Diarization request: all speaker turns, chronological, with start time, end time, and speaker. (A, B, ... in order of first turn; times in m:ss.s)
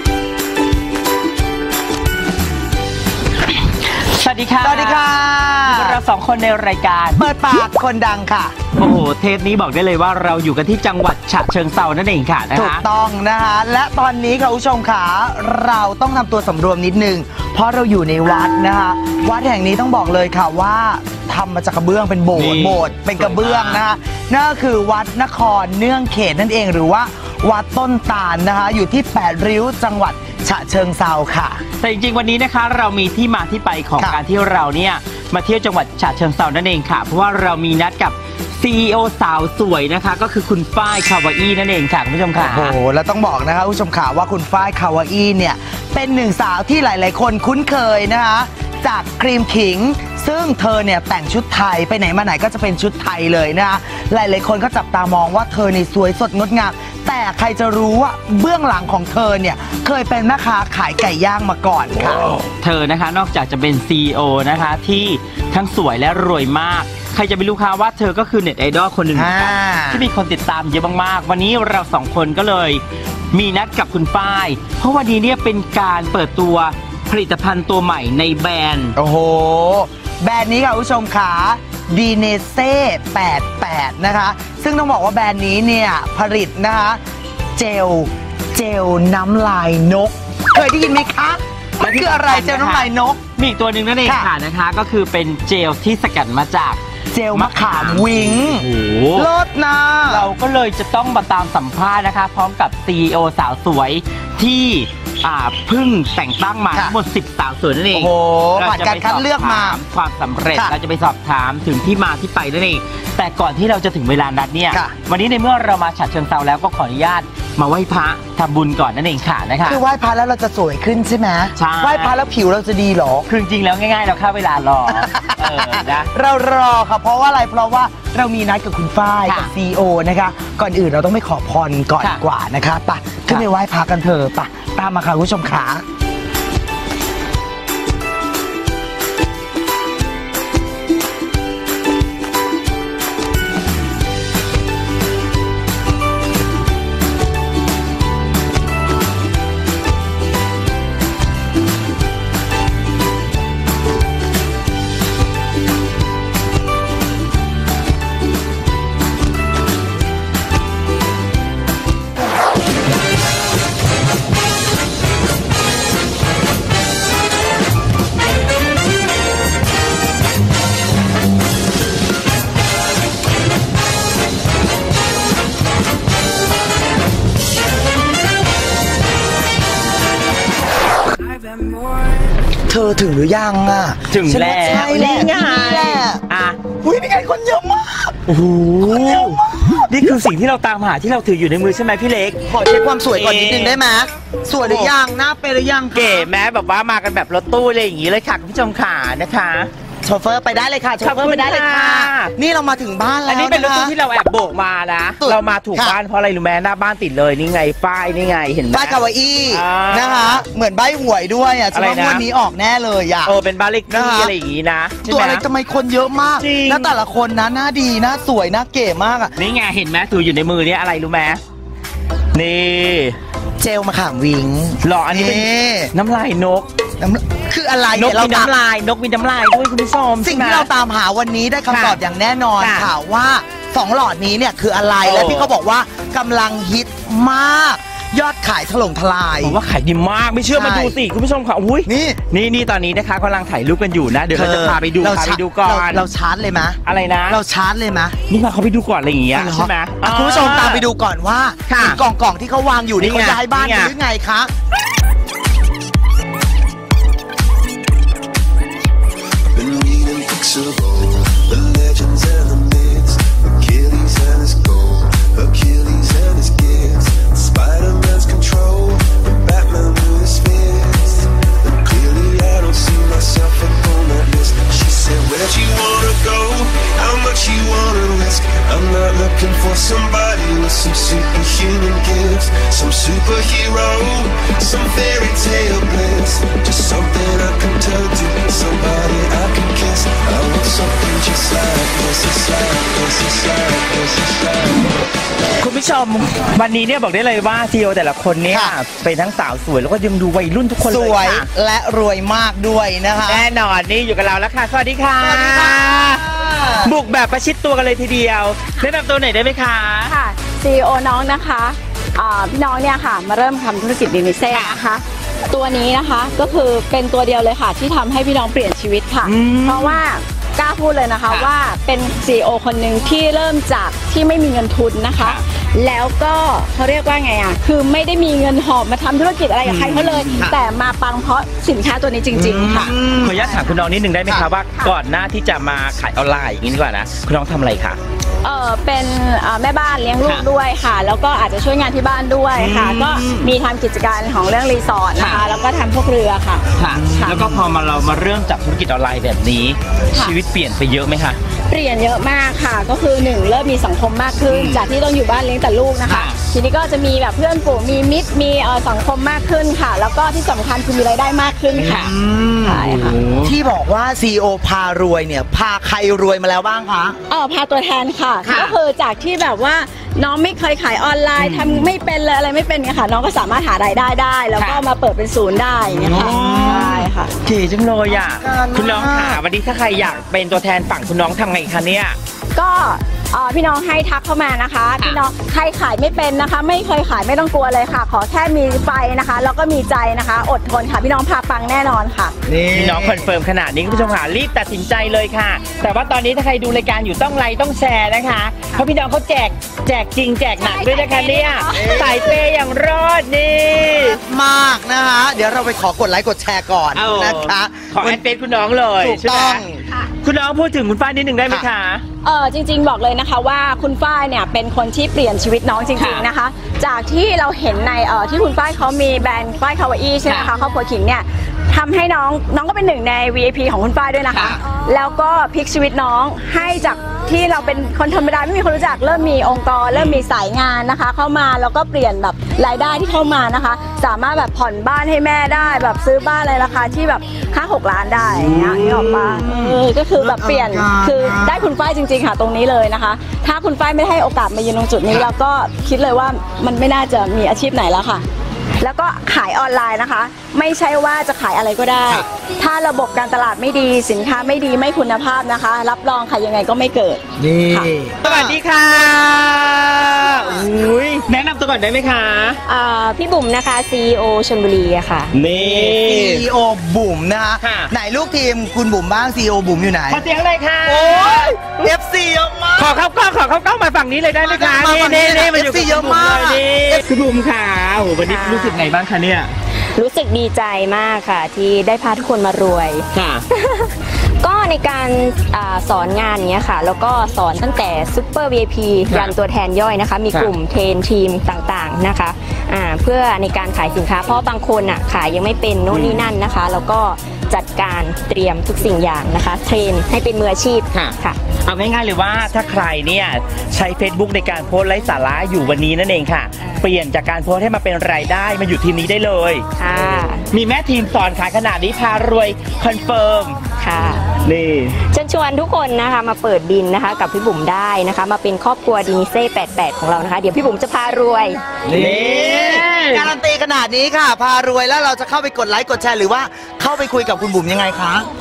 0:03.9-0:05.0 A
0:04.6-0:06.0 B
0:05.7-0:07.2 A
0:07.2-0:08.6 B
0:08.8-0:12.8 A
0:12.5-0:31.6 B
0:22.3-0:23.8 A
0:31.8-0:42.7 A
0:42.4-1:02.3 B
1:02.6-1:19.0 A
1:09.1-1:10.0 B
1:19.0-1:27.0 B
1:27.6-1:33.2 B
1:31.8-1:36.8 A
1:37.1-1:40.3 B
1:37.3-1:39.3 A
1:40.1-1:59.8 A
1:47.9-1:49.8 B
1:59.6-2:03.3 B
2:01.6-2:02.1 A
2:03.3-2:06.1 A
2:04.9-2:15.8 B
3:02.7-3:06.2 B
3:04.1-3:06.6 A
3:06.8-3:08.2 B
3:08.3-3:12.4 A
3:08.8-3:10.1 B
3:12.5-3:16.3 B
3:13.1-3:13.8 A
3:14.6-3:14.9 A
3:15.9-3:19.7 A
3:20.0-3:23.9 B
3:21.0-3:22.3 A
3:23.3-3:29.0 A
3:25.2-3:26.0 B
3:28.7-3:33.3 B
3:29.5-3:30.4 A
3:31.7-3:32.2 A
3:33.2-3:35.4 A
3:33.9-3:34.3 B
3:35.0-3:39.3 B
3:36.4-3:36.9 A
3:39.4-3:41.4 A
3:42.3-3:43.2 A
3:43.6-3:45.9 B
3:44.8-3:46.7 A
3:47.0-3:48.5 B
3:47.9-3:50.7 A
3:50.2-3:59.6 B
3:51.7-3:52.0 A
3:52.6-3:52.9 A
3:55.0-3:55.5 A
3:59.4-4:06.0 A
4:00.5-4:00.9 B
4:01.8-4:02.2 B
4:04.3-4:08.1 B
4:06.8-4:07.4 A
4:08.3-4:10.8 A
4:09.3-4:14.5 B
4:11.7-4:12.0 A
4:13.0-4:13.9 A
4:19.5-4:55.0 C
4:55.6-5:01.4 A
4:58.5-4:58.8 B
5:00.8-5:03.5 B
5:03.2-5:06.2 A
5:05.2-5:06.9 B
5:06.8-5:10.1 A
5:10.1-5:32.7 D
5:14.5-5:14.8 A
5:19.2-5:20.0 A
5:29.6-5:30.5 A
5:32.3-5:33.6 B
5:32.7-5:38.0 A
5:38.4-5:47.4 D
5:42.6-5:43.5 A
5:45.2-5:45.4 A
5:46.8-5:51.4 A
5:46.9-5:47.6 B
5:51.7-6:02.0 D
5:54.4-5:54.8 A
5:56.0-5:56.3 A
6:01.7-6:07.2 B
6:01.9-6:02.1 A
6:02.6-6:03.2 D
6:02.8-6:03.5 A
6:07.3-6:17.3 D
6:08.4-6:08.7 A
6:11.4-6:11.8 A
6:14.6-6:14.8 A
6:16.0-6:17.1 B
6:16.1-6:22.2 A
6:18.1-6:19.4 B
6:22.5-6:32.3 D
6:32.5-6:33.3 B
6:32.7-6:44.2 A
6:41.0-6:41.2 D
6:41.7-6:42.3 B
6:44.0-6:48.2 B
6:46.9-6:49.6 A
6:49.0-6:49.8 B
6:50.2-6:52.0 A
6:52.2-7:28.2 D
6:56.0-6:56.2 A
7:04.3-7:04.6 A
7:09.9-7:10.2 A
7:18.2-7:21.7 B
7:28.8-7:37.9 D
7:37.4-7:38.6 B
7:38.2-7:42.6 A
7:40.3-7:40.6 B
7:42.6-7:45.3 E
7:45.3-7:46.4 A
7:45.4-7:50.2 B
7:47.6-7:47.9 A
7:50.1-7:51.9 A
7:50.8-7:53.0 B
7:52.8-7:59.5 A
7:54.3-7:57.0 B
7:58.2-7:58.8 E
8:00.0-8:21.5 E
8:03.1-8:03.4 A
8:15.9-8:16.3 A
8:20.9-8:29.6 A
8:29.8-8:30.4 E
8:30.5-8:33.6 A
8:33.8-8:34.3 E
8:34.4-8:35.0 A
8:35.1-8:41.6 E
8:41.8-8:48.3 B
8:41.9-8:43.3 A